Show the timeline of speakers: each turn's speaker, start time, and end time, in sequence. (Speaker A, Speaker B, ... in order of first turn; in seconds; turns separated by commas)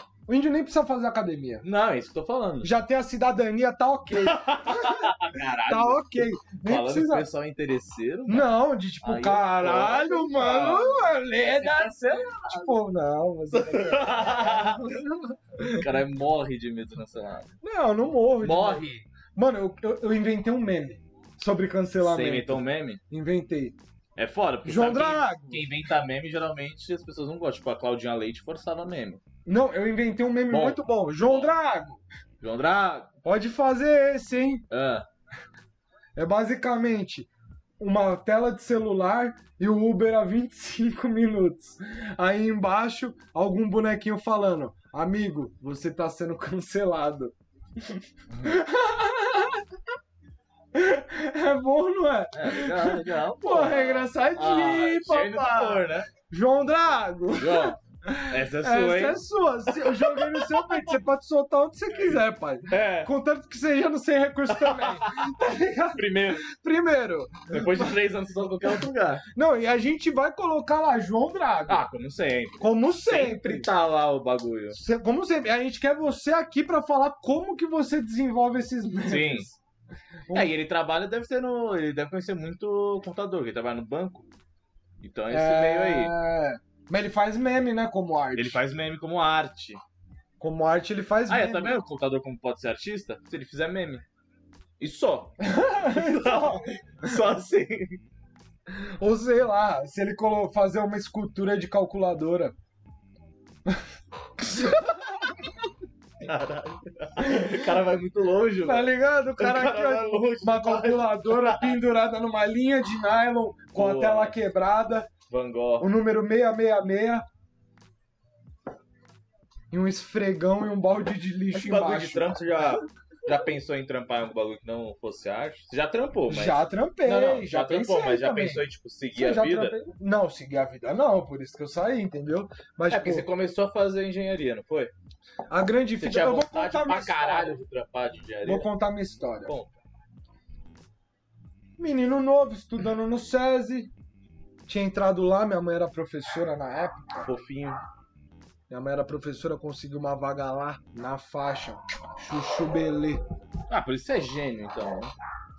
Speaker A: 0.3-1.6, Speaker B: 1.6-2.7, Speaker A: 2.6-5.1, Speaker B: 4.1-12.7, Speaker A: 5.7-7.3, Speaker A: 8.3-15.9, Speaker B: 13.5-15.0, Speaker B: 15.6-17.5, Speaker A: 17.6-23.8, Speaker B: 18.4-19.1, Speaker B: 22.0-23.0, Speaker B: 24.1-29.2, Speaker A: 24.6-25.7, Speaker A: 29.4-32.0, Speaker B: 30.5-31.5, Speaker B: 32.4-33.1, Speaker A: 33.2-34.6, Speaker B: 34.7-35.0, Speaker A: 36.1-37.3, Speaker A: 37.8-49.6, Speaker A: 50.7-68.0, Speaker B: 52.3-56.1, Speaker B: 57.4-57.8, Speaker B: 58.3-60.9, Speaker B: 62.7-63.1, Speaker B: 64.5-65.3, Speaker B: 65.9-66.5, Speaker B: 67.5-69.2, Speaker A: 69.3-71.9, Speaker B: 71.7-74.8, Speaker A: 72.6-73.7, Speaker A: 74.7-79.6, Speaker B: 79.0-79.5, Speaker B: 80.3-84.3, Speaker B: 85.0-86.1, Speaker A: 85.3-88.6, Speaker B: 88.3-89.8, Speaker A: 90.4-91.8, Speaker B: 91.3-94.0, Speaker B: 94.8-98.0, Speaker A: 95.4-97.2, Speaker A: 98.7-102.5, Speaker A: 104.4-104.9, Speaker B: 106.2-111.8, Speaker A: 107.2-107.7, Speaker A: 108.6-115.1, Speaker B: 113.7-114.4, Speaker B: 115.3-115.9, Speaker A: 115.8-117.2, Speaker A: 119.7-122.5, Speaker B: 121.5-129.8, Speaker A: 126.3-133.3, Speaker B: 132.9-134.9, Speaker A: 135.5-137.5, Speaker B: 136.0-138.7, Speaker A: 138.4-139.5, Speaker B: 139.4-139.8, Speaker A: 141.8-143.9, Speaker A: 144.7-147.3, Speaker B: 147.2-147.8, Speaker A: 148.7-153.2, Speaker B: 153.7-155.1